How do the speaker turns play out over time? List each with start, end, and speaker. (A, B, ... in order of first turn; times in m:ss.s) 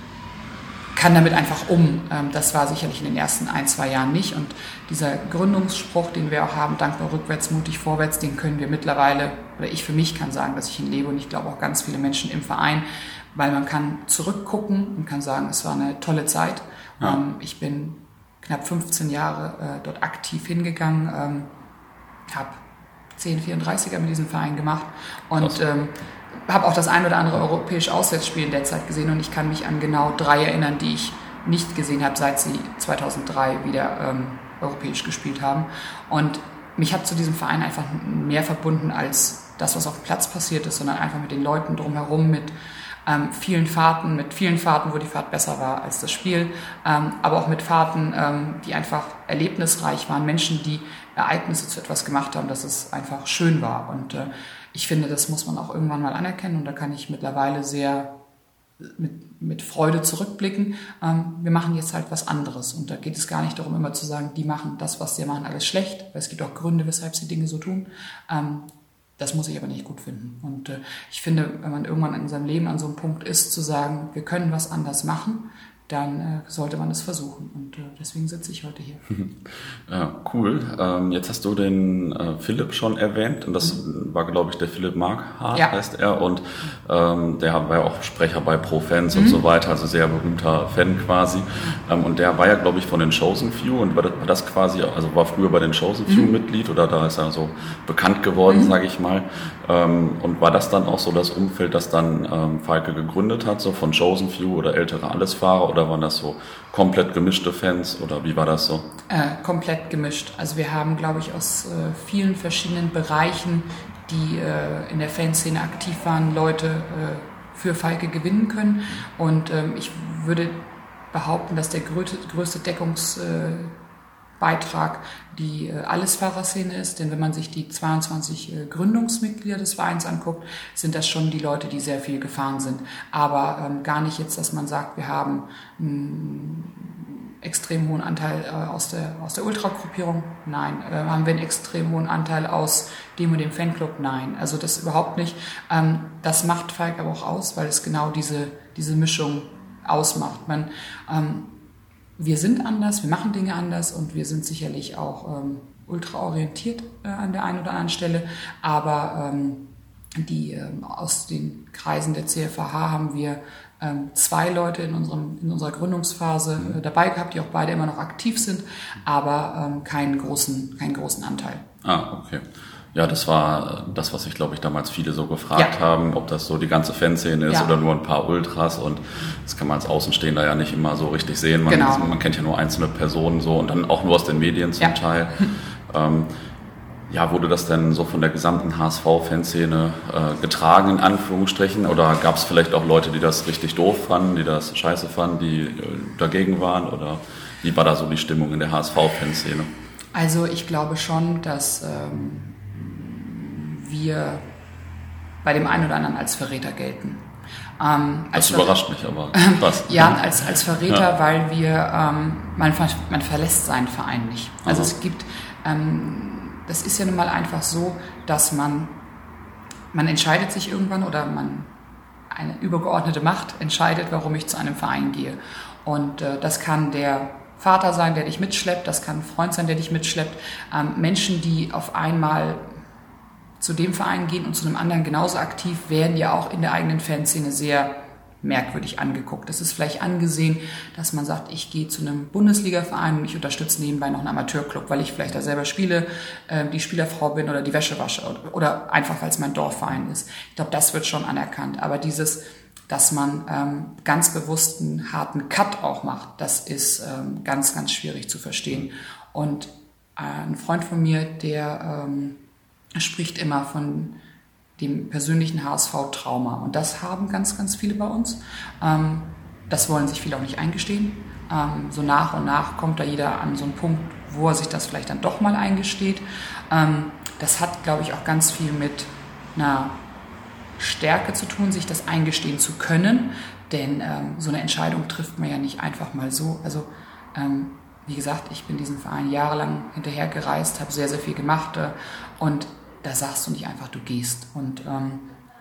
0:00.9-0:21.5 A
0:22.3-0:22.6 A
0:23.2-0:42.5 A
0:43.0-0:58.1 A
0:58.8-1:19.0 A
1:19.1-1:48.9 B
1:29.1-1:29.4 A
1:49.1-2:03.8 A
2:04.4-2:31.5 A
2:32.2-2:51.6 A
2:51.8-3:06.3 B
2:57.5-2:57.7 A
3:01.7-3:02.1 A
3:07.1-3:19.7 B
3:20.1-3:24.5 A
3:25.4-3:28.8 A
3:28.3-3:30.2 B
3:29.3-3:39.0 A
3:34.6-3:34.9 B
3:39.9-3:41.7 A
3:42.3-3:52.7 A
3:53.6-4:22.4 A
4:23.0-4:24.1 A
4:24.8-4:40.0 A
4:40.8-4:55.3 A